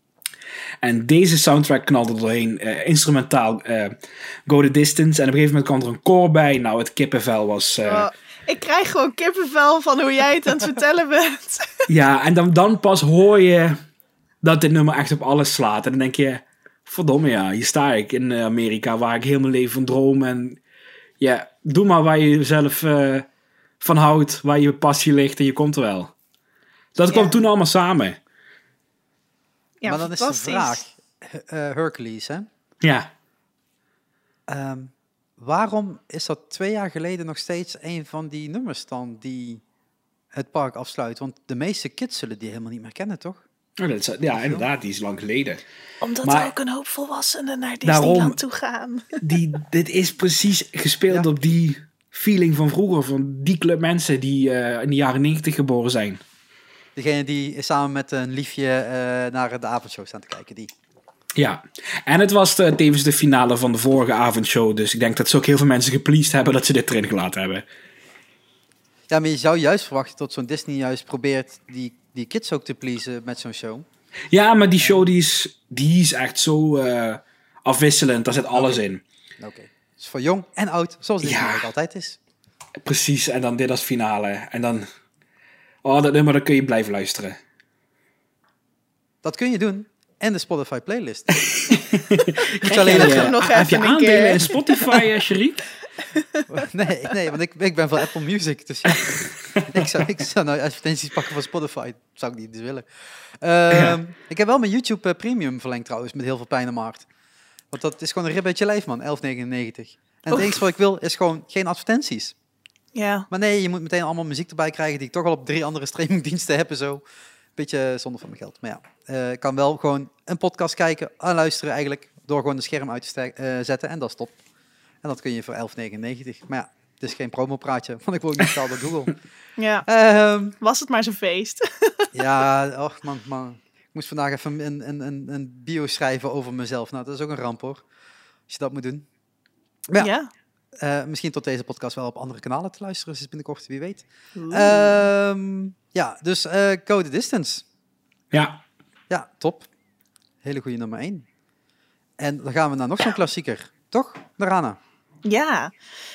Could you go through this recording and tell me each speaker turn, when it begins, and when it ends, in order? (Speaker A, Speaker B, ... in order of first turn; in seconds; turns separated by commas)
Speaker A: 0.8-8.1, Speaker B: 7.8-11.8, Speaker A: 11.9-13.8, Speaker A: 14.4-20.6, Speaker A: 21.2-23.3, Speaker A: 23.8-26.1, Speaker A: 26.9-28.2, Speaker B: 27.1-27.4, Speaker B: 29.8-30.8, Speaker C: 29.9-32.5, Speaker A: 32.8-33.1, Speaker C: 34.5-39.6, Speaker C: 40.3-43.4, Speaker A: 43.8-45.6, Speaker C: 44.3-44.7, Speaker B: 46.0-49.2, Speaker A: 46.2-46.5, Speaker A: 47.8-48.4, Speaker A: 49.2-56.2, Speaker C: 57.0-60.7, Speaker A: 61.4-67.7, Speaker C: 69.1-73.9, Speaker A: 74.3-79.0, Speaker C: 74.8-75.1, Speaker C: 78.5-78.8, Speaker C: 79.4-82.2, Speaker A: 81.2-81.7, Speaker A: 82.8-84.9, Speaker A: 85.8-87.4, Speaker C: 89.2-91.4, Speaker A: 91.4-95.7, Speaker B: 92.4-95.0, Speaker C: 92.6-93.4, Speaker B: 96.1-96.5, Speaker C: 96.5-102.9, Speaker A: 99.5-99.8, Speaker C: 103.4-107.0, Speaker A: 103.7-104.0, Speaker C: 107.7-112.3, Speaker B: 112.9-113.3, Speaker C: 113.3-117.0, Speaker C: 117.5-124.4, Speaker C: 125.0-129.1, Speaker B: 129.6-129.8, Speaker C: 129.8-130.6, Speaker B: 130.6-132.2, Speaker C: 132.1-137.8, Speaker C: 138.5-139.1, Speaker B: 140.0-140.3, Speaker C: 140.8-147.6, Speaker B: 144.3-145.1, Speaker A: 148.3-148.6, Speaker C: 149.1-149.7, Speaker C: 150.4-151.2, Speaker C: 152.2-154.8, Speaker B: 155.2-155.7